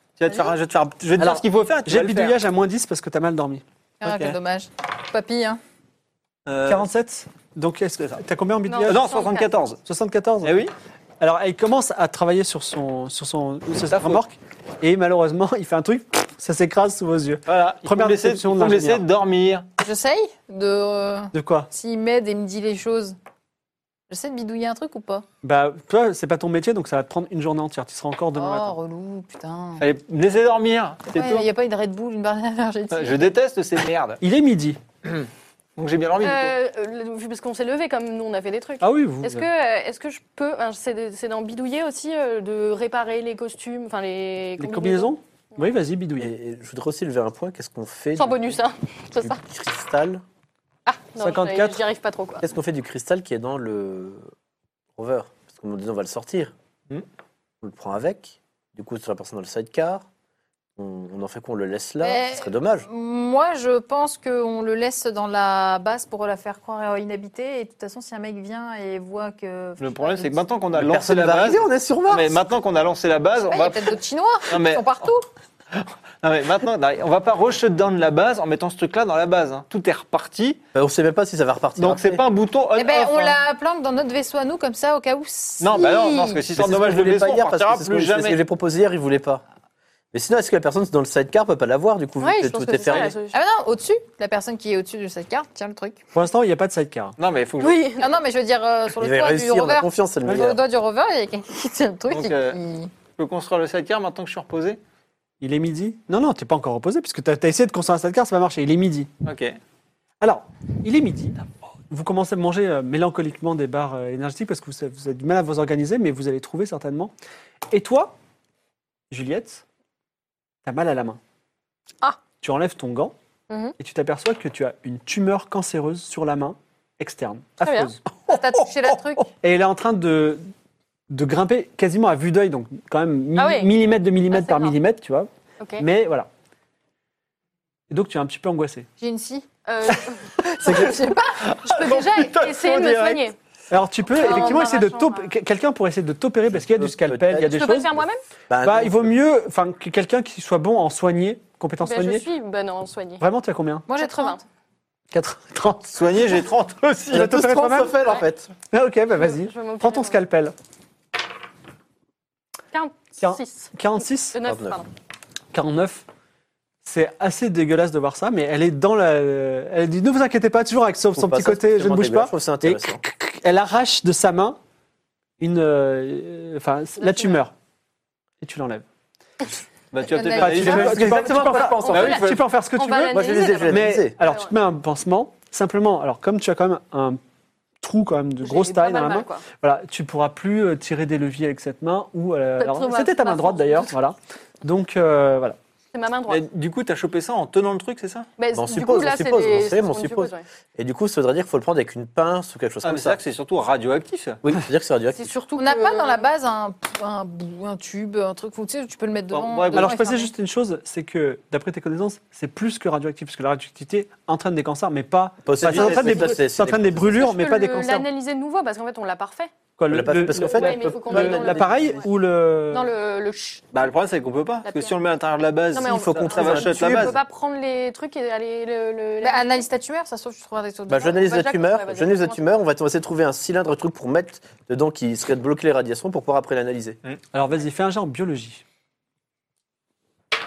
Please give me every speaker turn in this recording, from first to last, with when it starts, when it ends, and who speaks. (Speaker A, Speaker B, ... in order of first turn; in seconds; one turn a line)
Speaker A: 0.2-2.4
Speaker B: 1.2-3.6
Speaker C: 4.0-5.6
Speaker A: 4.0-4.3
Speaker A: 6.5-6.8
Speaker B: 6.7-9.1
Speaker D: 8.7-9.5
Speaker A: 8.8-9.8
Speaker B: 9.8-10.6
Speaker A: 10.4-10.7
Speaker B: 11.2-19.1
Speaker A: 13.8-14.2
Speaker A: 17.5-19.6
Speaker C: 19.8-23.2
Speaker B: 21.3-21.7
Speaker C: 24.1-25.2
Speaker B: 25.4-28.8
Speaker C: 28.4-29.8
Speaker A: 29.8-31.5
Speaker C: 31.1-33.3
Speaker A: 32.9-34.2
Speaker B: 34.2-34.8
Speaker A: 35.0-36.5
Speaker D: 36.2-45.6
Speaker B: 38.8-39.5
Speaker B: 44.6-46.3
Speaker E: 46.2-48.6
Speaker D: 48.1-49.4
Speaker E: 49.2-50.2
Speaker D: 50.9-52.4
Speaker B: 51.2-51.8
Speaker E: 52.4-54.2
Speaker E: 55.0-56.5
Speaker E: 57.6-60.0
Speaker E: 60.8-62.9
Speaker C: 62.0-70.4
Speaker A: 69.8-75.1
Speaker E: 70.7-72.4
Speaker C: 73.4-75.3
Speaker A: 75.7-80.6
Speaker E: 80.7-82.2
Speaker A: 81.8-83.4
Speaker C: 82.8-86.4
Speaker A: 85.6-88.4
Speaker E: 86.5-89.4
Speaker E: 90.1-93.2
Speaker D: 92.2-93.4
Speaker A: 92.9-93.1
Speaker C: 93.3-96.0
Speaker B: 96.1-97.2
Speaker A: 97.2-97.9
Speaker D: 97.6-98.1
Speaker C: 98.0-102.9
Speaker E: 99.0-100.6
Speaker A: 102.1-102.6
Speaker A: 103.2-104.8
Speaker B: 105.4-109.1
Speaker A: 109.2-109.6
Speaker B: 110.2-111.4
Speaker B: 111.9-117.1
Speaker B: 117.7-118.2
Speaker B: 119.1-119.6
Speaker B: 120.6-121.2
Speaker B: 122.4-123.1
Speaker D: 123.5-123.7
Speaker B: 123.8-128.0
Speaker D: 127.6-127.9
Speaker C: 128.3-129.3
Speaker B: 129.3-130.5
Speaker B: 131.1-136.3
Speaker D: 133.3-133.7
Speaker D: 134.3-134.8
Speaker D: 135.6-135.8
Speaker B: 137.9-138.9
Speaker C: 139.0-139.5
Speaker D: 139.7-143.3
Speaker C: 140.6-141.8
Speaker A: 141.5-143.2
Speaker B: 143.7-147.9
Speaker D: 144.1-145.3
Speaker C: 144.2-144.8
Speaker E: 146.6-147.7
Speaker D: 147.5-148.2
Speaker E: 148.5-149.1
Speaker B: 148.6-152.3
Speaker D: 151.8-153.2
Speaker B: 153.2-153.8
Speaker C: 153.9-154.4
Speaker D: 153.9-154.4
Speaker B: 155.1-155.9
Speaker A: 155.9-157.3
Speaker B: 157.1-158.0
Speaker E: 157.1-158.5
Speaker B: 158.7-160.5
Speaker D: 159.1-160.2
Speaker D: 162.7-163.7
Speaker B: 163.2-164.4
Speaker D: 164.3-164.9
Speaker E: 164.4-164.8
Speaker B: 165.5-166.0
Speaker B: 166.8-174.6
Speaker E: 171.1-173.0
Speaker B: 175.4-177.5
Speaker D: 177.0-177.4
Speaker B: 178.4-178.8
Speaker A: 179.9-181.1
Speaker C: 180.0-181.9
Speaker B: 180.3-187.2
Speaker E: 180.4-182.2
Speaker D: 181.9-184.5
Speaker A: 181.9-182.4
Speaker E: 183.1-184.2
Speaker B: 187.8-195.6
Speaker D: 188.4-189.4
Speaker D: 192.6-193.9
Speaker D: 195.9-196.4
Speaker A: 196.3-198.3
Speaker D: 198.4-200.4
Speaker E: 198.5-203.2
Speaker A: 202.8-204.4
Speaker E: 204.4-205.3
Speaker D: 205.1-206.3
Speaker C: 205.6-210.3
Speaker A: 209.3-209.9
Speaker B: 209.7-218.1
Speaker E: 215.4-217.1
Speaker A: 215.6-216.4
Speaker D: 217.1-219.5
Speaker B: 219.8-222.9
Speaker E: 219.9-222.0
Speaker D: 220.3-222.1
Speaker D: 222.7-223.6
Speaker A: 223.7-227.2
Speaker D: 224.6-224.9
Speaker D: 225.7-229.6
Speaker E: 225.8-227.2
Speaker C: 229.2-231.5
Speaker E: 230.9-237.0
Speaker D: 231.1-232.4
Speaker B: 237.3-238.6